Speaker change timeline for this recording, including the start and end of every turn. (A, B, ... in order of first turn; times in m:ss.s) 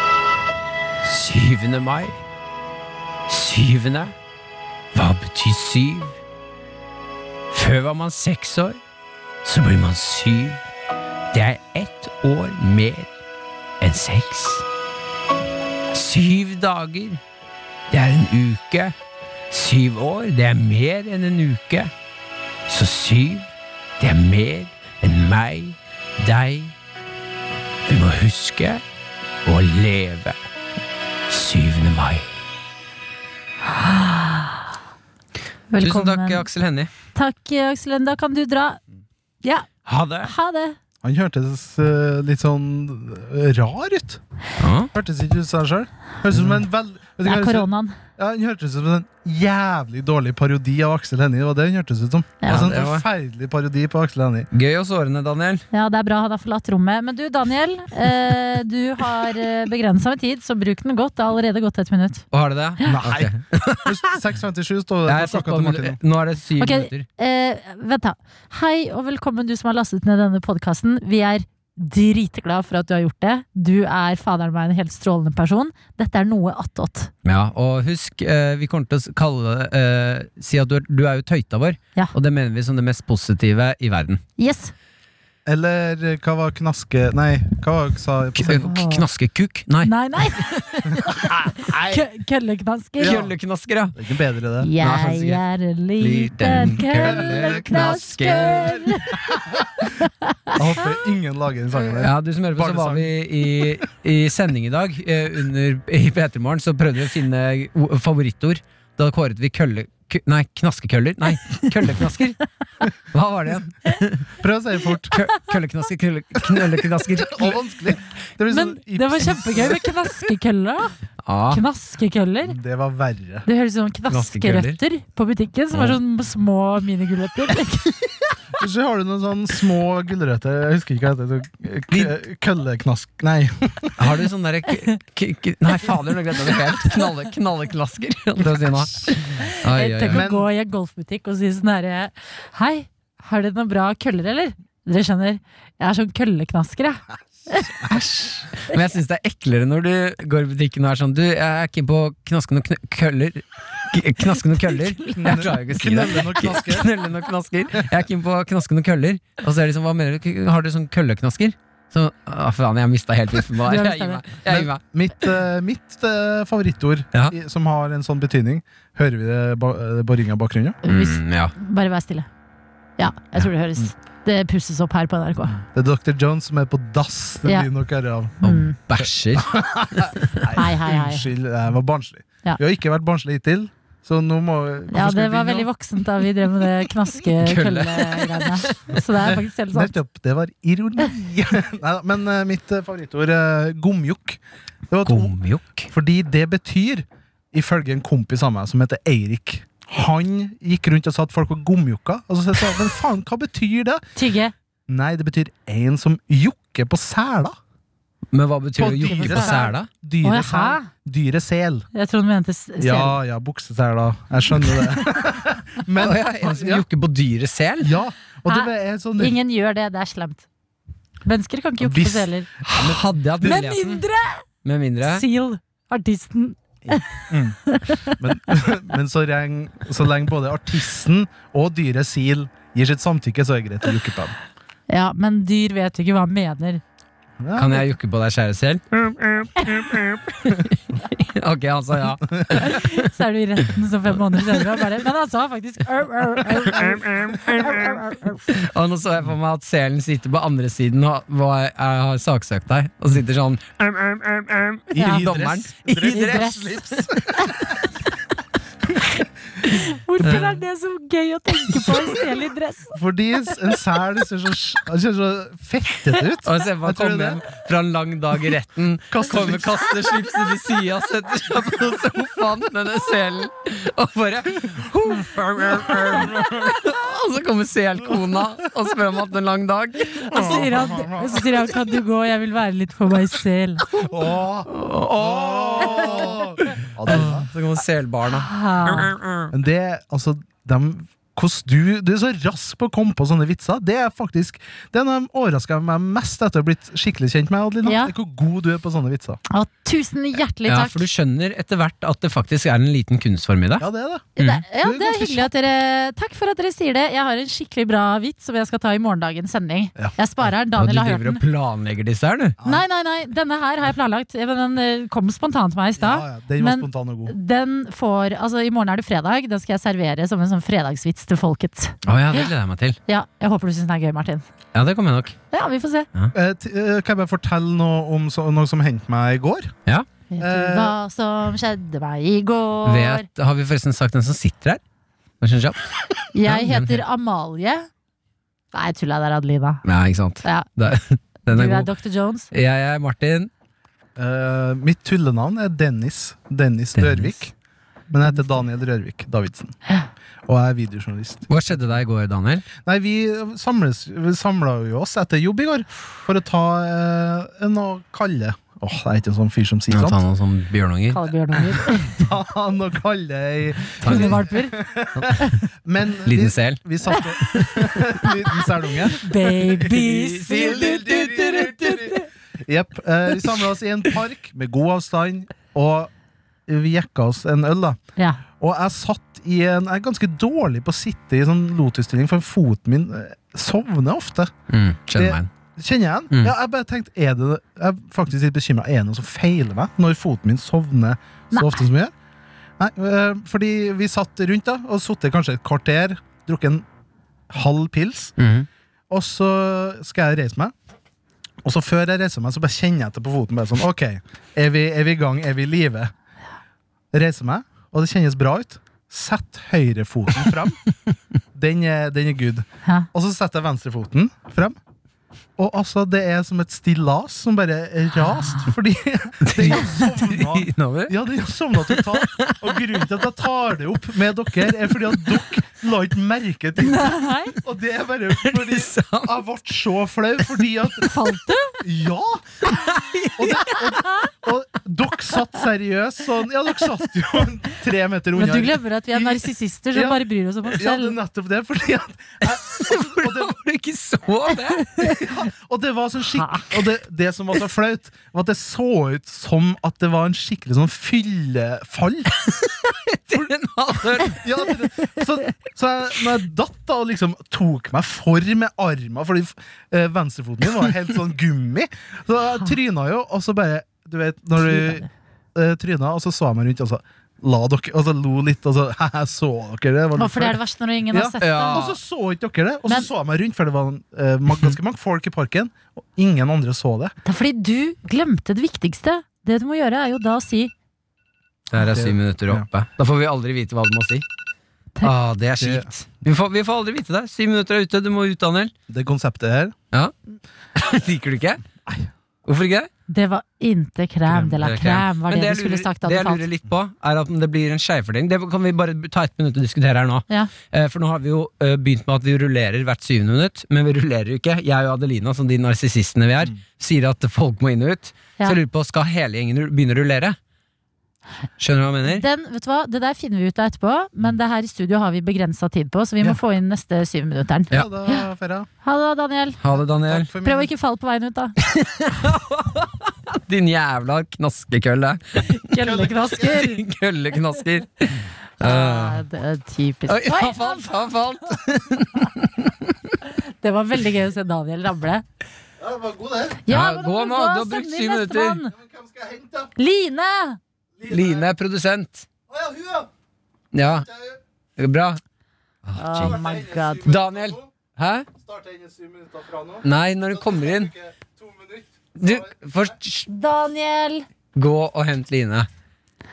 0:01.0-0:02.2 A
0:03.3-0:04.1 A
0:04.9-0:06.2 A
0:07.5-0:08.8 A
0:09.4-0:10.6 A
0:11.3-0:13.1 A
0:13.8-0:14.6 A
0:15.9-0:17.2 A
0:17.9-0:18.9 A
0:19.5-0:21.9 A
0:22.7-0:23.5 A
0:24.0-0:26.7 A
0:27.9-0:28.8 A
0:29.4-0:30.4 A
0:31.3-0:32.2 A
0:33.7-0:34.6 B
0:35.7-0:36.4 B
0:35.8-0:36.9 A
0:37.1-0:38.8 B
0:39.4-0:39.7 B
0:39.8-0:40.3 A
0:40.2-0:40.8 B
0:41.0-0:44.2 C
0:44.6-0:44.9 A
0:44.9-0:54.5 C
0:46.3-0:46.6 A
0:47.2-0:48.0 B
0:52.4-0:52.7 B
0:52.4-0:53.0 A
0:54.5-0:55.6 A
0:55.7-1:02.2 B
1:02.3-1:04.2 A
1:02.8-1:06.0 C
1:05.1-1:07.1 A
1:06.6-1:17.1 B
1:17.2-1:24.2 A
1:24.4-1:24.7 B
1:25.4-1:28.6 C
1:28.4-1:31.3 A
1:28.5-1:29.0 B
1:29.8-1:33.3 B
1:30.9-1:31.8 C
1:33.0-1:33.3 C
1:33.0-1:34.0 A
1:33.9-1:34.7 C
1:34.6-1:39.3 B
1:34.8-1:35.4 A
1:36.0-1:38.9 A
1:37.0-1:39.8 C
1:39.8-1:40.6 B
1:40.6-1:43.6 C
1:42.0-1:52.4 A
1:52.9-1:54.3 A
1:54.4-1:55.2 C
1:55.1-1:57.6 A
1:57.1-2:00.0 C
1:58.5-2:00.9 B
2:01.2-2:01.6 A
2:01.5-2:02.6 B
2:02.4-2:03.4 C
2:03.4-2:08.2 B
2:04.1-2:04.8 A
2:05.7-2:06.0 A
2:08.6-2:14.0 C
2:14.0-2:20.2 A
2:19.4-2:28.0 B
2:20.1-2:20.4 C
2:27.9-2:44.8 A
2:34.6-2:35.6 B
2:35.2-2:36.9 C
2:43.6-2:44.2 B
2:44.4-2:50.8 C
2:50.8-2:52.3 B
2:50.9-2:51.5 A
2:53.0-2:55.6 B
2:55.7-2:58.4 C
2:58.4-2:58.8 B
2:58.4-2:59.6 A
2:59.4-3:05.7 C
3:00.5-3:01.3 B
3:04.9-3:10.0 B
3:07.4-3:09.0 A
3:09.2-3:15.4 C
3:15.0-3:15.9 A
3:15.9-3:24.0 C
3:24.1-3:24.5 B
3:24.9-3:27.6 C
3:28.3-3:29.9 A
3:28.8-3:31.9 C
3:29.0-3:29.7 B
3:30.2-3:30.9 B
3:31.9-3:33.2 B
3:32.8-3:36.8 C
3:36.0-3:37.9 A
3:37.8-3:39.3 C
3:38.5-3:40.4 B
3:41.2-3:42.5 B
3:41.8-3:43.0 C
3:42.7-3:44.0 A
3:43.4-3:44.5 B
3:44.6-3:45.2 A
3:45.0-3:48.2 B
3:46.9-3:54.3 C
3:54.9-3:56.8 B
3:57.4-3:57.9 C
3:57.6-4:03.1 A
4:02.6-4:08.4 B
4:06.5-4:17.0 A
4:14.9-4:17.7 C
4:15.0-4:15.3 B
4:16.1-4:16.9 B
4:19.6-4:23.0 B
4:20.2-4:20.6 A
4:22.9-4:27.4 C
4:26.4-4:40.7 A
4:29.1-4:29.8 C
4:40.2-4:43.9 B
4:40.3-4:41.7 C
4:44.0-4:47.5 C
4:44.7-4:49.5 A
4:48.3-4:49.1 B
4:49.5-4:59.4 C
4:57.8-4:58.1 B
4:59.5-5:01.1 B
5:00.6-5:03.8 A
5:03.8-5:05.5 C
5:04.4-5:04.6 A
5:04.4-5:11.4 B
5:10.0-5:10.5 C
5:10.7-5:12.6 A
5:12.6-5:22.5 B
5:16.0-5:17.3 C
5:22.0-5:23.0 A
5:23.0-5:24.4 B
5:24.7-5:25.3 A
5:25.5-5:26.1 B
5:26.3-5:29.7 C
5:30.3-5:33.2 B
5:30.4-5:31.0 C
5:32.8-5:34.8 A
5:35.4-5:37.0 A
5:36.3-5:37.9 B
5:38.7-5:39.8 B
5:39.8-5:41.9 A
5:40.4-5:40.7 B
5:41.4-5:42.5 B
5:42.5-5:43.5 A
5:44.2-5:47.5 C
5:47.0-5:47.4 A
5:48.1-5:49.7 C
5:50.5-5:51.8 C
5:51.5-5:52.7 A
5:52.8-6:00.2 C
5:59.9-6:01.9 A
6:01.1-6:02.1 B
6:02.0-6:09.9 C
6:04.0-6:04.4 A
6:04.1-6:04.8 B
6:06.3-6:07.8 A
6:09.2-6:12.2 B
6:09.5-6:12.1 A
6:10.5-6:16.1 C
6:16.7-6:18.0 C
6:18.2-6:18.4 B
6:18.6-6:24.5 C
6:24.7-6:25.5 A
6:25.1-6:32.1 C
6:31.5-6:31.8 B
6:32.8-6:36.8 C
6:37.5-6:38.3 C
6:38.4-6:38.7 A
6:39.1-6:40.7 C
6:41.6-6:46.1 C
6:47.1-6:50.8 C
6:51.5-6:54.8 C
6:55.6-7:11.1 C
6:59.4-7:01.1 A
7:01.9-7:02.7 A
7:06.8-7:07.5 B
7:08.3-7:09.4 A
7:11.0-7:11.8 B
7:11.8-7:12.7 C
7:12.6-7:13.9 A
7:13.4-7:23.5 C
7:18.3-7:21.2 B
7:22.4-7:25.2 A
7:25.1-7:32.5 C
7:26.3-7:26.6 B
7:32.6-7:34.5 A
7:34.2-7:57.1 C
7:44.6-7:45.1 B
7:50.2-7:51.8 B
7:51.4-7:52.0 A
7:57.2-8:00.7 B
8:01.7-8:04.2 A
8:01.7-8:02.6 C
8:05.0-8:08.7 A
8:05.6-8:05.9 C
8:08.9-8:09.7 C
8:10.7-8:11.6 A
8:12.4-8:12.9 A
8:13.1-8:16.5 B
8:14.2-8:14.6 C
8:14.6-8:30.4 A
8:31.6-8:32.2 A
8:32.1-8:38.2 B
8:37.7-8:38.7 C
8:38.8-8:39.6 B
8:39.6-8:40.3 A
8:40.0-8:40.7 C
8:40.4-8:41.6 B
8:41.7-8:49.2 A
8:45.5-8:46.8 B
8:45.8-8:46.4 C
8:48.6-8:50.9 B
8:50.1-8:52.9 A
8:53.2-8:55.2 B
8:55.8-8:56.6 C
8:56.6-8:58.7 B
8:56.7-8:58.6 A
8:58.8-8:59.7 C
8:59.8-9:00.6 B
9:01.0-9:01.5 C
9:01.0-9:02.2 A
9:02.5-9:03.1 C
9:03.7-9:04.1 A
9:04.8-9:05.2 A
9:05.8-9:06.4 A
9:06.0-9:07.1 B
9:06.2-9:07.7 C
9:07.0-9:08.3 A
9:08.4-9:09.8 C
9:09.8-9:10.9 A
9:10.4-9:12.5 C
9:12.2-9:13.3 A
9:13.3-9:14.2 B
9:14.5-9:15.7 A